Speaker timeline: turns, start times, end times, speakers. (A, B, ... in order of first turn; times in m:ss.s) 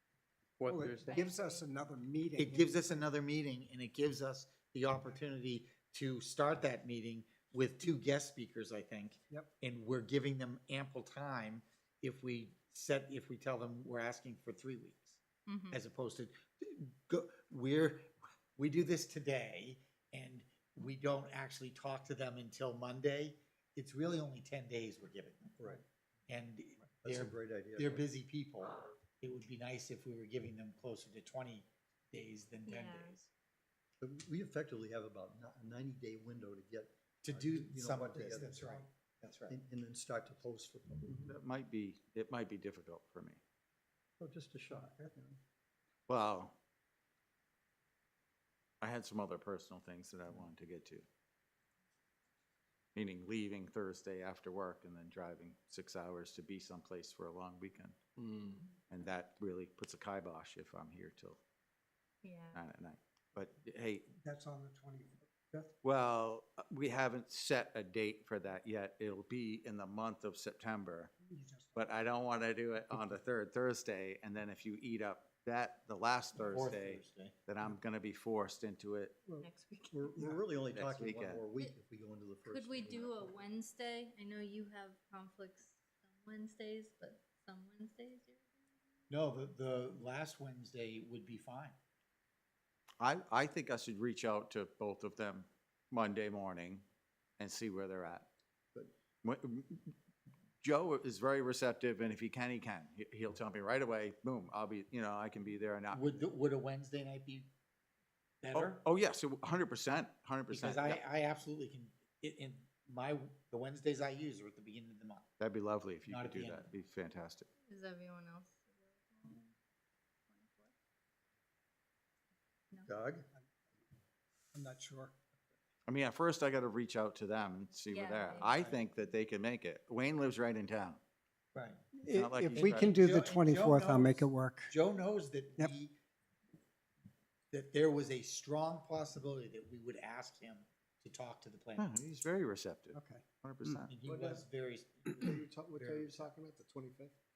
0:00.6-0:01.2 A
0:00.7-0:03.0 B
0:01.1-0:01.7 C
0:02.4-0:25.7 D
0:15.5-0:15.8 C
0:26.3-0:33.3 D
0:27.0-0:28.0 E
0:32.7-0:33.2 C
0:34.0-0:38.8 E
0:37.2-0:39.6 D
0:39.5-0:41.3 E
0:41.3-0:43.4 A
0:44.2-0:45.4 E
0:46.1-0:46.6 A
0:48.8-0:51.1 A
0:53.0-0:58.0 A
0:58.9-1:01.4 A
1:02.2-1:02.6 C
1:02.5-1:04.1 A
1:04.2-1:05.7 B
1:05.8-1:11.1 A
1:11.2-1:11.9 B
1:11.8-1:19.2 A
1:16.4-1:17.4 D
1:19.4-1:20.3 C
1:19.9-1:23.3 E
1:20.7-1:21.4 A
1:22.4-1:28.6 C
1:29.1-1:31.8 D
1:33.0-1:36.8 A
1:37.4-1:38.3 A
1:39.2-1:39.9 A
1:40.6-1:46.1 A
1:45.9-1:47.5 D
1:48.4-1:48.8 D
1:48.6-1:51.0 A
1:50.5-1:55.3 D
1:55.4-1:57.5 A
1:56.1-1:56.7 D
1:57.7-1:59.5 C
2:00.3-2:00.7 C
2:02.8-2:03.3 E
2:04.5-2:05.2 B
2:05.9-2:11.0 A
2:07.9-2:08.6 C
2:11.5-2:11.9 D
2:12.0-2:14.7 B
2:12.1-2:13.0 A
2:12.5-2:16.0 D
2:17.5-2:21.9 D
2:21.8-2:24.0 A
2:22.9-2:23.2 B
2:23.9-2:26.4 D
2:24.0-2:24.4 F
2:25.1-2:27.1 F